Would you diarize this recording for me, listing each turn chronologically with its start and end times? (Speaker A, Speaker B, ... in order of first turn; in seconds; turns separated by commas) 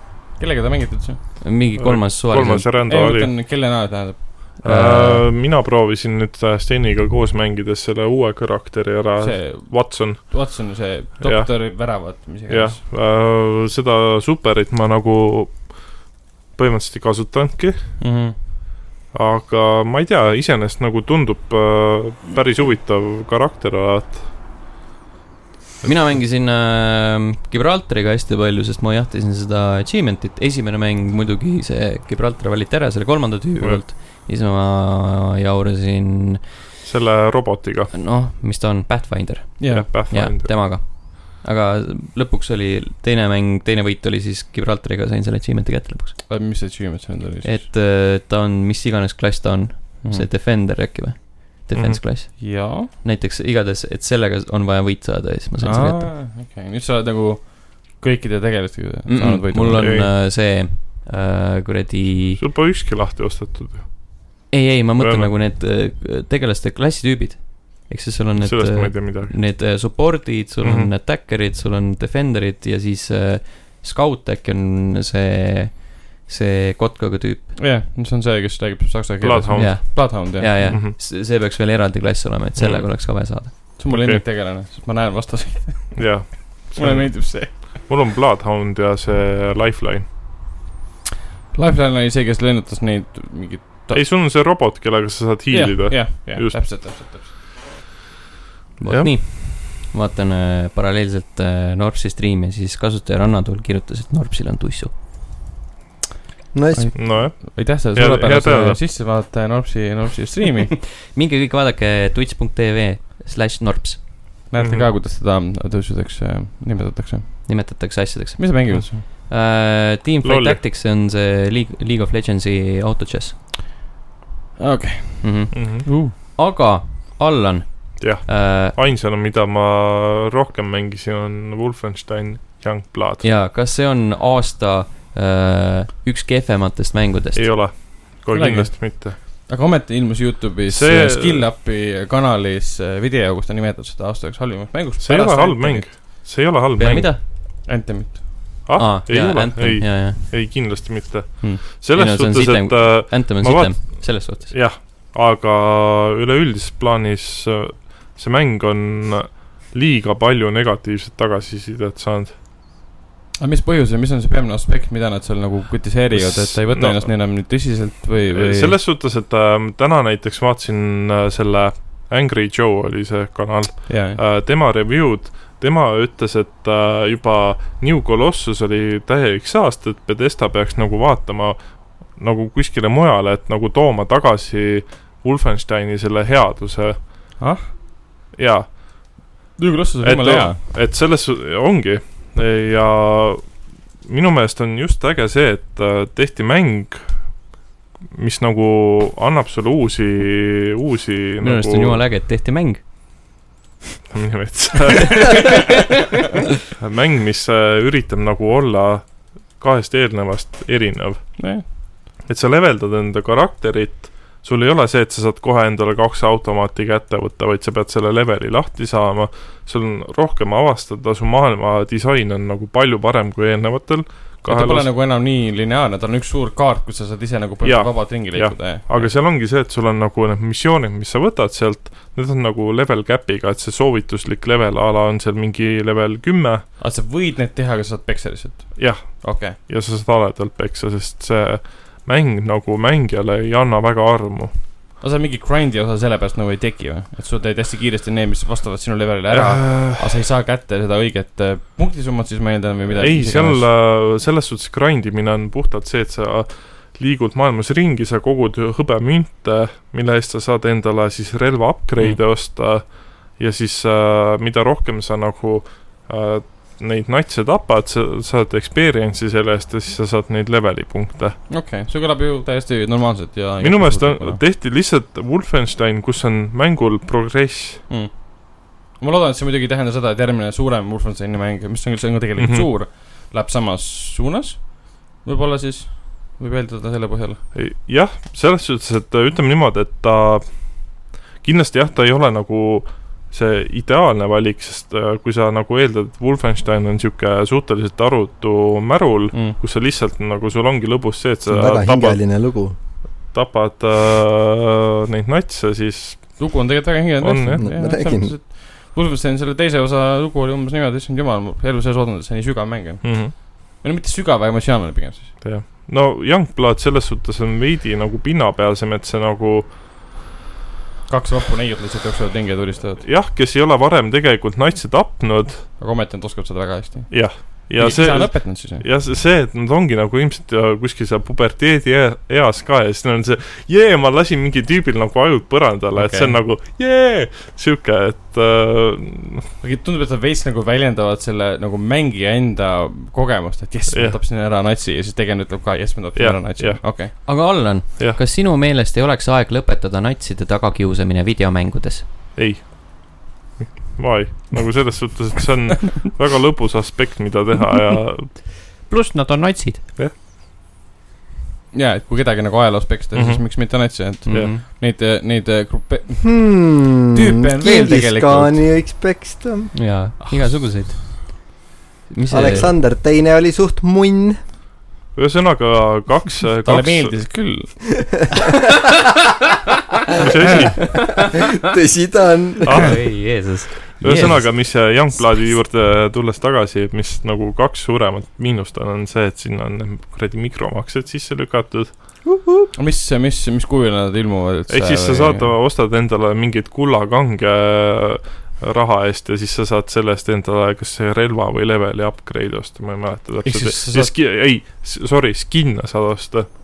Speaker A: 0.4-1.4, Speaker B: 1.4-2.7, Speaker C: 1.8-3.3, Speaker A: 2.9-4.5, Speaker B: 4.6-5.3, Speaker C: 4.6-10.6, Speaker A: 9.2-12.8, Speaker C: 11.2-18.0, Speaker A: 18.0-18.4, Speaker C: 19.1-24.3, Speaker B: 25.8-36.6, Speaker C: 25.8-26.1, Speaker C: 33.6-33.8, Speaker C: 36.8-37.9, Speaker B: 37.9-46.2, Speaker A: 39.6-39.9, Speaker C: 39.7-40.6, Speaker A: 46.3-47.7, Speaker B: 47.4-56.1, Speaker A: 50.0-50.3, Speaker C: 51.7-52.0, Speaker A: 52.4-52.9, Speaker A: 55.6-59.9, Speaker B: 59.1-62.4, Speaker C: 59.7-60.1, Speaker C: 62.4-64.5, Speaker B: 64.5-77.6, Speaker C: 65.0-65.3, Speaker C: 68.4-69.4, Speaker C: 70.6-70.9, Speaker A: 77.6-80.7, Speaker C: 79.2-81.0, Speaker B: 79.6-83.7, Speaker C: 82.6-84.2, Speaker A: 83.8-87.8, Speaker C: 86.0-90.1, Speaker A: 91.5-94.1, Speaker C: 93.9-96.7, Speaker A: 95.5-97.3, Speaker B: 98.8-104.9, Speaker C: 98.9-99.1, Speaker D: 106.5-107.3, Speaker A: 106.7-110.8, Speaker C: 107.0-108.8, Speaker B: 111.0-114.3, Speaker A: 114.5-117.7, Speaker C: 114.6-114.8, Speaker B: 117.5-123.4, Speaker A: 118.4-119.0, Speaker C: 120.2-120.6, Speaker A: 124.6-126.1, Speaker B: 125.2-128.8, Speaker C: 125.5-125.9, Speaker C: 128.0-133.2, Speaker B: 133.2-137.6, Speaker C: 137.3-139.2, Speaker A: 138.3-145.9, Speaker C: 140.7-141.4, Speaker C: 145.0-147.1, Speaker B: 146.8-147.2, Speaker A: 147.4-148.5, Speaker C: 148.7-162.4, Speaker B: 148.8-150.2, Speaker B: 151.9-154.6, Speaker A: 163.4-168.8, Speaker C: 166.1-167.3, Speaker C: 168.3-187.4, Speaker A: 173.9-174.2, Speaker A: 187.4-187.7, Speaker C: 188.3-189.3, Speaker A: 189.6-190.6, Speaker C: 190.0-197.5, Speaker C: 198.1-202.0, Speaker B: 201.4-202.8, Speaker C: 204.1-205.8, Speaker C: 206.7-224.9, Speaker A: 211.4-211.6, Speaker A: 224.4-229.2, Speaker C: 227.6-236.7, Speaker A: 236.8-239.6, Speaker C: 238.8-244.6, Speaker A: 245.0-253.7, Speaker C: 249.3-250.2, Speaker C: 253.0-271.4, Speaker A: 271.5-274.4, Speaker C: 273.6-277.8, Speaker A: 277.9-287.4, Speaker C: 282.4-282.7, Speaker C: 287.5-302.2, Speaker D: 301.5-302.8, Speaker C: 303.3-306.6, Speaker A: 306.4-315.4, Speaker C: 307.2-307.6, Speaker D: 307.6-308.4, Speaker C: 313.0-313.3, Speaker C: 315.4-319.8, Speaker A: 321.1-323.0, Speaker C: 323.0-325.7, Speaker A: 325.8-328.9, Speaker C: 327.1-339.4, Speaker A: 335.9-336.4, Speaker A: 339.6-347.1, Speaker C: 343.9-344.2, Speaker C: 346.2-348.2, Speaker B: 347.2-352.1, Speaker C: 352.4-358.3, Speaker B: 358.8-359.9, Speaker A: 361.7-366.5, Speaker C: 363.1-364.5, Speaker B: 364.3-364.6, Speaker D: 366.2-369.8, Speaker A: 367.1-368.7, Speaker B: 369.7-371.6, Speaker B: 372.1-372.7, Speaker D: 372.3-374.4, Speaker C: 375.1-377.1, Speaker A: 376.6-378.1, Speaker C: 380.2-380.9, Speaker D: 381.1-383.0, Speaker C: 382.7-392.0, Speaker B: 382.7-385.2, Speaker D: 392.2-392.7, Speaker A: 392.8-395.5, Speaker C: 394.7-406.6, Speaker A: 403.4-404.1